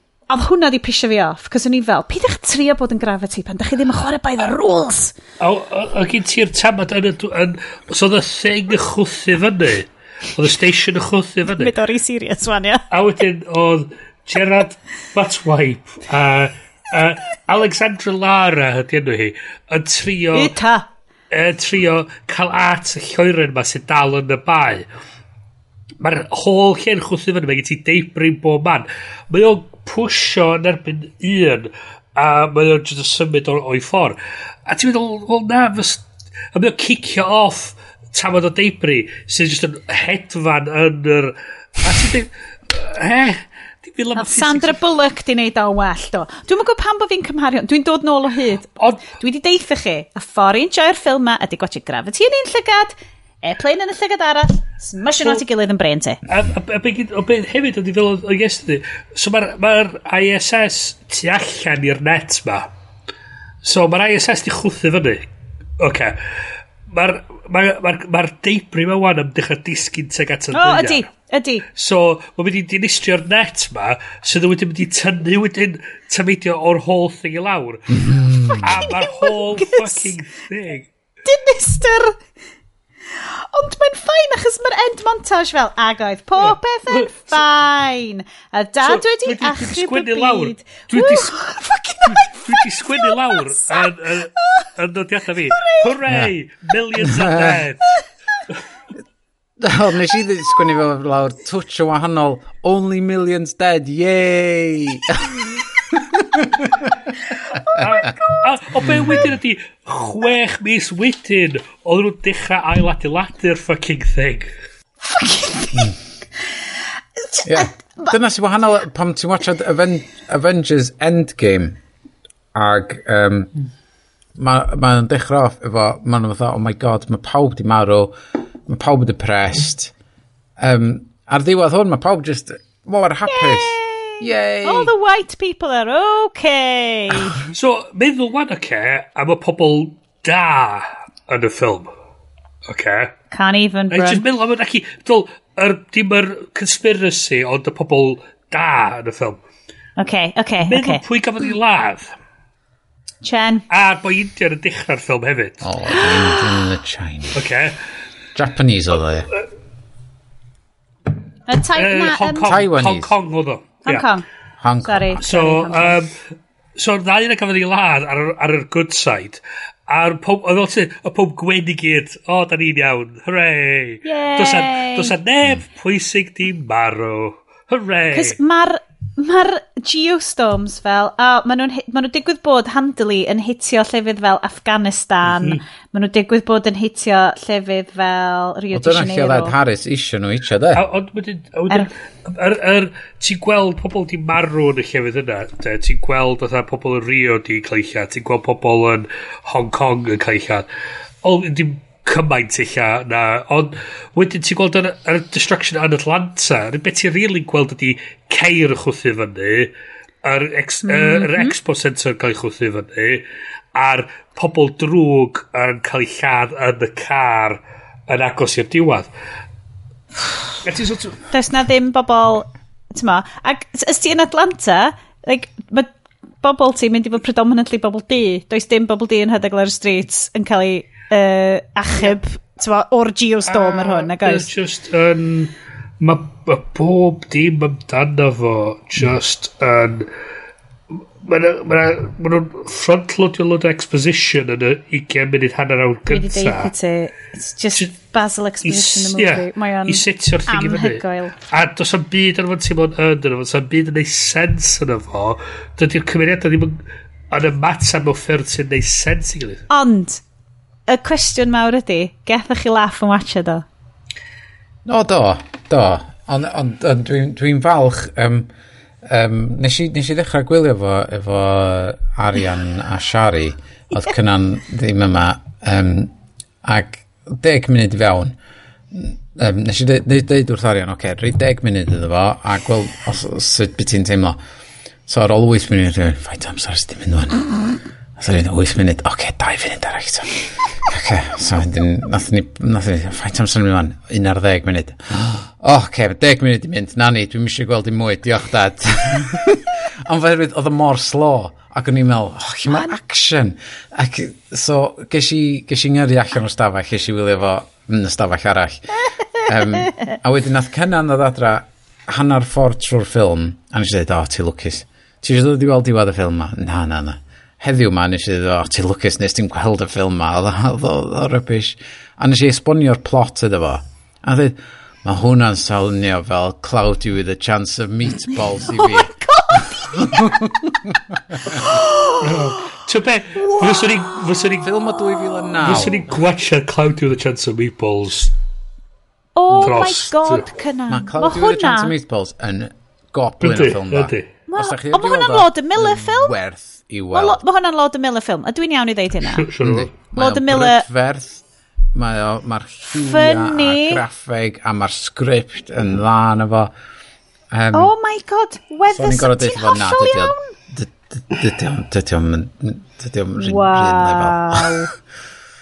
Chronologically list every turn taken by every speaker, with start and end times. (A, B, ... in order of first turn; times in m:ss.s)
0:00.3-0:05.1 A
0:05.4-0:11.7 B
0:11.5-0:12.8 A
0:12.9-0:20.5 B
0:20.3-0:20.9 A
0:21.3-0:24.8 B
0:26.0-0:34.2 B
0:34.7-0:44.8 B
0:44.2-0:56.2 A
0:48.8-0:49.1 B
0:56.3-1:02.7 B
1:03.6-1:05.2 B
1:05.8-1:06.2 B
1:06.9-1:11.1 B
1:10.5-1:11.6 A
1:11.8-1:18.1 B
1:18.1-1:18.7 C
1:18.5-1:20.1 A
1:18.6-1:20.9 B
1:21.2-1:22.2 A
1:23.2-1:34.6 A
1:26.4-1:27.4 B
1:28.8-1:31.4 B
1:32.1-1:38.0 B
1:35.5-1:35.9 A
1:36.1-1:36.3 C
1:37.1-1:37.6 C
1:39.6-1:46.9 C
1:47.8-1:48.1 C
1:47.8-1:54.5 B
1:55.0-1:55.9 A
1:57.2-1:58.2 A
1:57.4-2:01.8 C
2:02.6-2:03.5 C
2:04.4-2:08.2 C
2:08.7-2:09.9 C
2:10.6-2:14.9 C
2:13.3-2:17.4 A
2:17.5-2:21.9 B
2:22.7-2:23.1 B
2:23.3-2:24.2 A
2:23.9-2:29.4 B
2:30.0-2:31.0 A
2:30.6-2:32.1 B
2:33.2-2:33.6 A
2:33.7-2:35.6 B
2:35.6-2:37.4 C
2:36.0-2:36.4 A
2:37.3-2:37.8 B
2:38.4-2:39.3 C
2:41.5-2:42.5 A
2:41.8-2:44.1 B
2:42.5-2:43.1 C
2:43.8-2:44.2 A
2:44.6-2:45.2 C
2:44.8-2:46.0 A
2:45.2-2:46.1 B
2:46.8-2:58.4 B
2:54.0-2:55.1 A
2:58.1-3:09.6 A
3:05.3-3:05.6 B
3:08.7-3:10.9 C
3:10.7-3:20.7 B
3:21.2-3:29.7 B
3:30.2-3:39.1 B
3:30.8-3:31.5 A
3:40.6-3:41.2 B
3:41.3-3:45.9 A
3:46.4-3:54.5 A
3:53.5-4:00.1 B
4:01.2-4:06.7 B
4:06.1-4:11.4 A
4:08.6-4:16.8 B
4:17.3-4:19.6 B
4:19.7-4:20.2 A
4:20.9-4:23.6 A
4:24.9-4:28.5 C
4:29.1-4:36.1 C
4:36.6-4:38.4 C
4:38.9-4:44.4 C
4:45.1-5:31.6 C
5:02.7-5:03.0 A
5:28.7-5:30.3 A
5:31.5-5:32.2 A
5:32.2-5:34.7 B
5:33.4-5:33.8 A
5:34.6-5:36.0 C
5:35.6-5:38.3 B
5:39.4-5:41.9 A
5:39.5-5:40.5 B
5:40.9-5:47.4 C
5:43.4-5:44.3 B
5:44.5-5:46.3 A
5:47.1-5:49.5 A
5:49.3-5:49.9 B
5:49.6-5:56.7 C
5:50.1-5:50.9 A
5:52.9-5:54.0 A
5:57.5-5:57.9 C
5:57.7-6:00.5 A
5:58.9-6:04.9 C
6:03.4-6:04.9 A